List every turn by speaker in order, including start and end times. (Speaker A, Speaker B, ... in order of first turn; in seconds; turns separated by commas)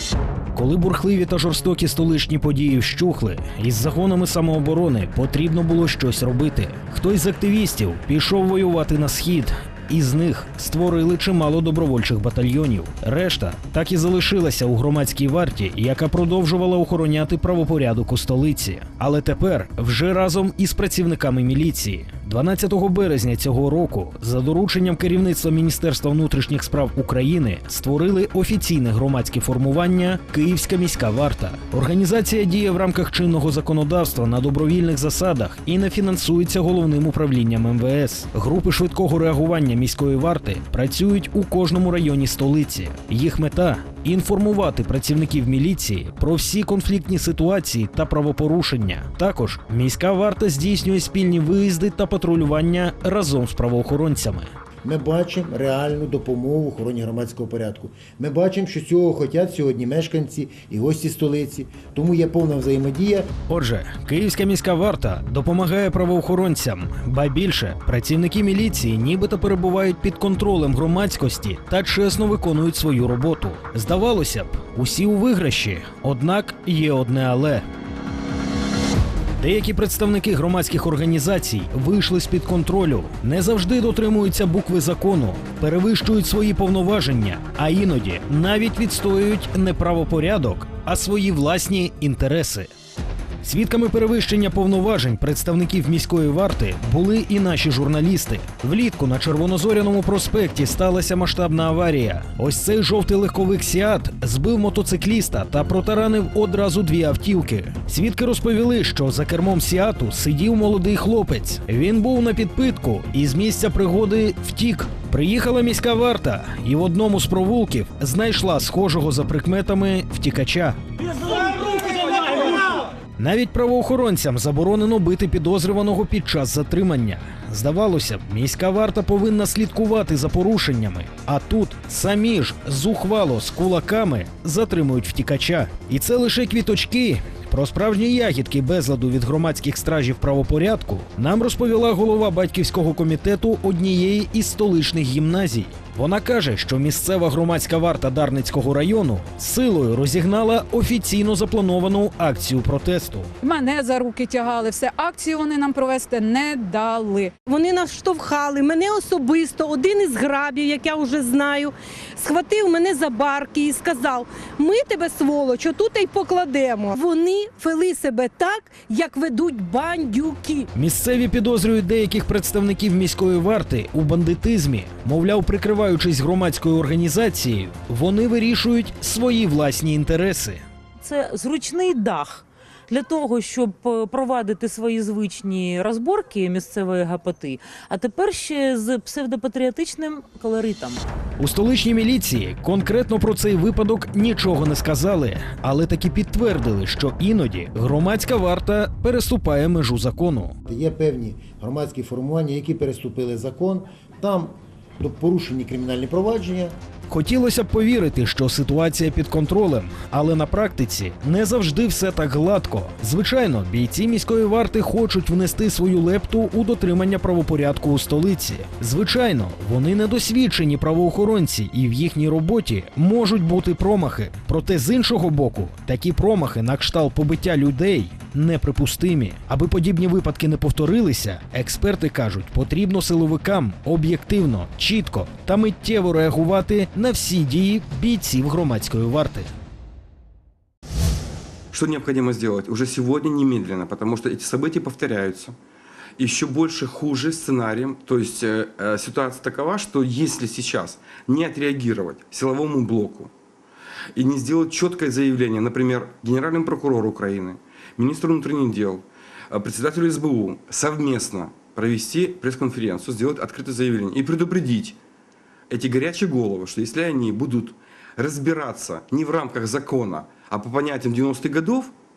Speaker A: 0.5-54.5, Speaker B: 54.8-63.3, Speaker A: 63.5-77.6, Speaker A: 79.4-92.7, Speaker A: 93.4-120.8, Speaker A: 123.2-153.3, Speaker C: 153.4-157.3, Speaker D: 157.5-170.7, Speaker A: 170.8-180.6, Speaker E: 181.0-191.0, Speaker A: 191.4-200.6, Speaker B: 200.7-206.8, Speaker A: 207.1-239.5, Speaker F: 241.7-245.6, Speaker F: 246.2-253.3, Speaker F: 254.2-265.0, Speaker F: 265.7-271.9